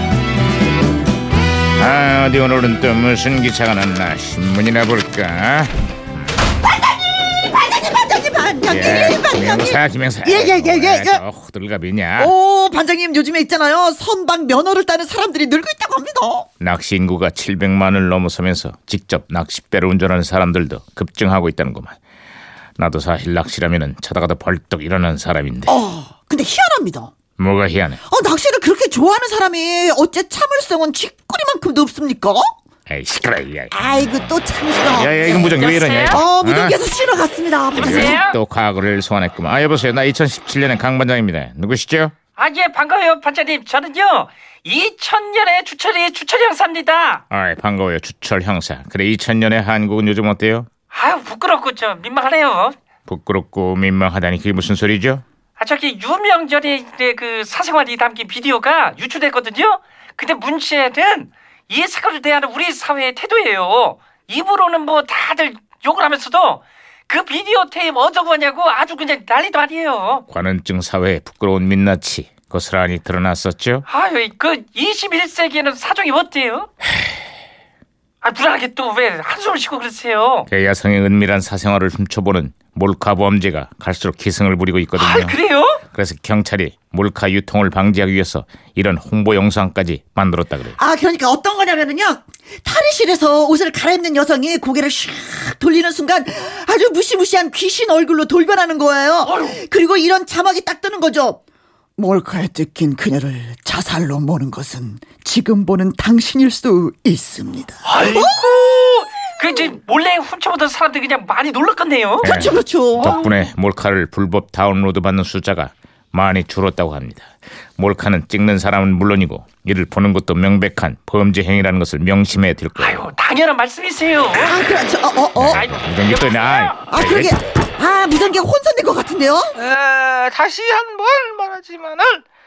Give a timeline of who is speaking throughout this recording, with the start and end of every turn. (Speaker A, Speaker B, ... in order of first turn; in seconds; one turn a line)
Speaker A: 1.8-5.7
Speaker B: 7.4-11.2
Speaker A: 8.7-12.3
Speaker B: 12.2-16.5
Speaker A: 16.6-21.9
Speaker A: 22.8-25.7
Speaker B: 25.7-27.1
Speaker A: 27.4-28.0
Speaker B: 28.0-32.5
Speaker A: 32.9-33.7
Speaker B: 33.7-35.6
Speaker A: 34.9-36.8
Speaker C: 35.3-36.2
Speaker B: 36.1-38.2
Speaker A: 37.7-42.1
Speaker C: 37.8-38.4
Speaker C: 42.4-47.2
Speaker A: 47.3-50.7
Speaker C: 50.9-52.8
Speaker A: 53.1-55.2
Speaker C: 55.6-70.2
Speaker A: 70.3-73.8
Speaker C: 73.9-76.7
Speaker C: 78.2-80.5
Speaker A: 80.5-90.8
Speaker C: 84.9-85.8
Speaker B: 90.8-101.4
Speaker C: 99.2-99.6
Speaker B: 102.0-108.4
Speaker C: 107.8-112.3
Speaker B: 112.2-113.2
Speaker A: 112.2-117.3
Speaker C: 113.0-113.3
Speaker A: 117.8-123.0
Speaker C: 122.8-124.6
Speaker B: 124.3-125.7
Speaker A: 125.4-127.4
Speaker C: 125.5-126.8
Speaker B: 126.8-129.5
Speaker D: 129.6-132.2